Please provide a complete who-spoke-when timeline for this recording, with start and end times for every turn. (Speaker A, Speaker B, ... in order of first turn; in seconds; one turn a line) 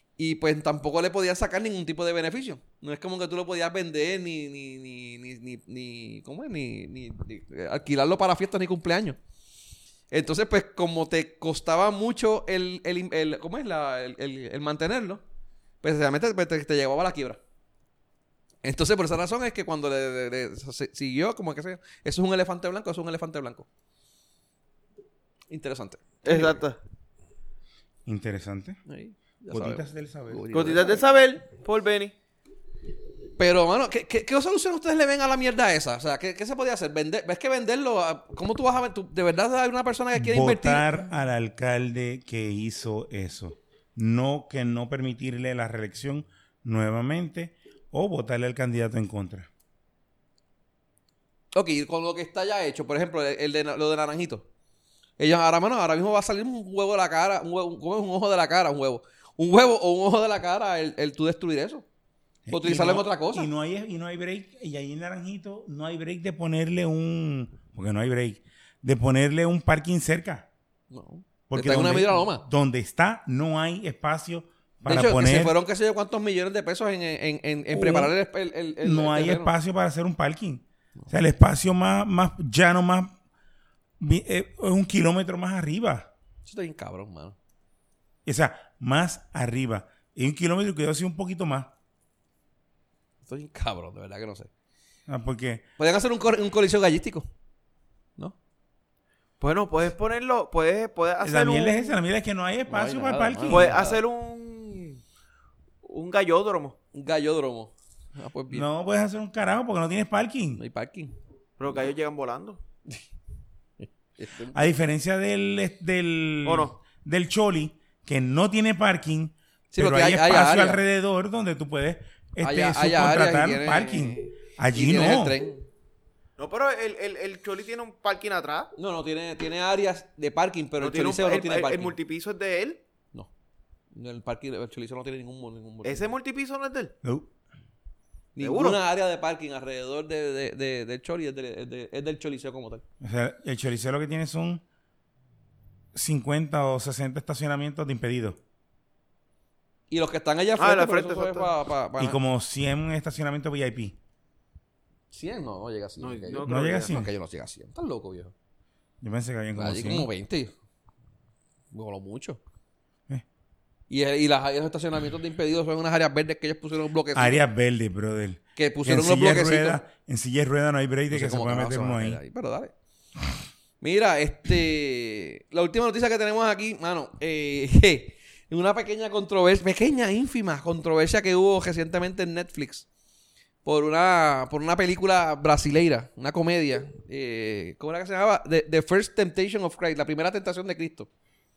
Speaker A: 0.2-9.2
Speaker A: 10.1-15.2
Speaker A: 15.8-17.4
Speaker A: 18.6-23.7
Speaker A: 25.5-26.6
Speaker B: 26.2-26.8
Speaker C: 28.1-28.8
Speaker A: 28.9-31.0
Speaker C: 29.5-30.5
Speaker B: 30.5-32.1
Speaker A: 33.4-40.9
Speaker C: 40.1-49.5
Speaker A: 51.5-54.5
Speaker A: 55.2-61.9
Speaker C: 62.5-70.5
Speaker A: 62.5-63.5
Speaker A: 70.9-72.5
Speaker C: 71.5-75.5
Speaker A: 74.9-79.5
Speaker C: 77.7-78.2
Speaker C: 78.8-83.2
Speaker C: 84.0-86.1
Speaker A: 86.5-87.4
Speaker C: 88.2-91.7
Speaker A: 93.3-94.5
Speaker C: 95.1-95.6
Speaker A: 95.8-97.3
Speaker B: 99.4-102.0
Speaker C: 101.2-103.8
Speaker A: 102.7-104.0
Speaker B: 103.5-105.0
Speaker B: 105.8-106.8
Speaker A: 106.9-108.7
Speaker C: 108.5-110.6
Speaker A: 110.6-111.1
Speaker B: 111.6-112.6
Speaker A: 113.8-114.7
Speaker C: 114.5-125.4
Speaker B: 116.5-116.8
Speaker A: 119.7-120.8
Speaker A: 122.4-125.7
Speaker B: 126.4-128.7
Speaker A: 128.8-131.9
Speaker B: 130.8-132.8
Speaker A: 133.9-136.1
Speaker B: 135.8-136.9
Speaker C: 137.0-137.3
Speaker A: 138.3-142.8
Speaker B: 138.4-138.8
Speaker C: 143.0-144.6
Speaker C: 145.9-148.4
Speaker A: 149.9-152.2
Speaker B: 150.6-151.5
Speaker C: 152.0-154.0
Speaker A: 155.1-158.3
Speaker B: 156.0-156.9
Speaker C: 156.4-157.1
Speaker C: 159.0-160.1
Speaker A: 159.6-160.5
Speaker A: 161.7-162.4
Speaker A: 163.9-167.4
Speaker C: 167.1-172.2
Speaker A: 168.6-169.8
Speaker A: 171.1-172.7
Speaker A: 173.8-182.9
Speaker A: 183.7-191.1